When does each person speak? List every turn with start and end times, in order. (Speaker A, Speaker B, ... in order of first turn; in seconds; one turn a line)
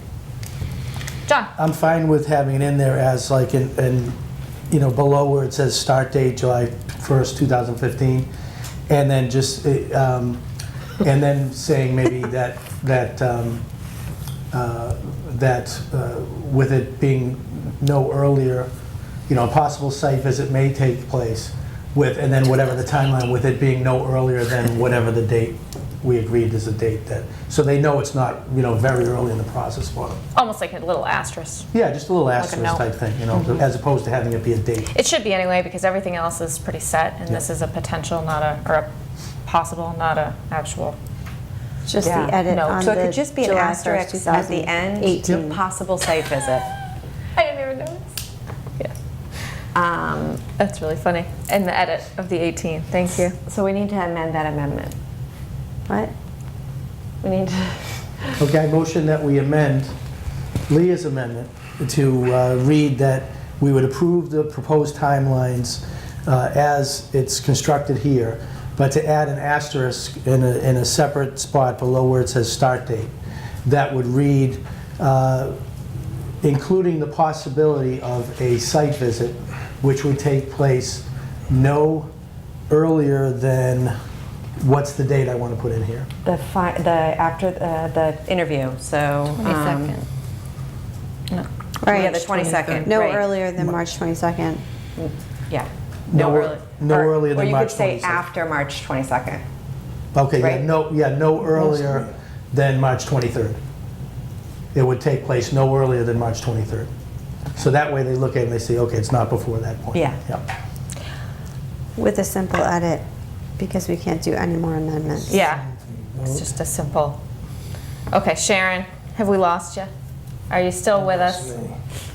Speaker A: 1.6-4.2
Speaker A: 4.7-8.3
Speaker A: 8.9-10.4
Speaker A: 11.0-13.6
Speaker A: 14.5-18.7
Speaker A: 19.3-30.2
Speaker B: 30.3-31.7
Speaker A: 31.7-34.9
Speaker B: 32.3-32.9
Speaker B: 34.9-38.9
Speaker B: 39.4-41.0
Speaker C: 41.9-45.6
Speaker D: 42.0-46.7
Speaker B: 42.5-43.1
Speaker B: 47.4-48.2
Speaker D: 49.7-50.4
Speaker B: 50.4-53.4
Speaker D: 53.5-55.0
Speaker D: 57.2-58.3
Speaker A: 58.4-59.9
Speaker A: 60.7-73.1
Speaker A: 73.7-75.5
Speaker A: 76.4-82.1
Speaker A: 82.7-84.0
Speaker A: 84.6-86.1
Speaker D: 86.2-90.0
Speaker B: 91.3-93.3
Speaker C: 91.8-92.2
Speaker D: 91.8-93.2
Speaker C: 92.8-94.6
Speaker D: 95.0-99.4
Speaker A: 96.1-98.2
Speaker B: 96.3-96.6
Speaker A: 100.1-103.6
Speaker D: 100.4-100.7
Speaker D: 101.5-101.8
Speaker A: 104.7-106.9
Speaker A: 107.6-110.4
Speaker D: 109.9-110.2
Speaker C: 112.0-113.0
Speaker C: 113.6-115.4
Speaker B: 115.3-117.2
Speaker B: 118.1-119.9
Speaker B: 120.5-121.7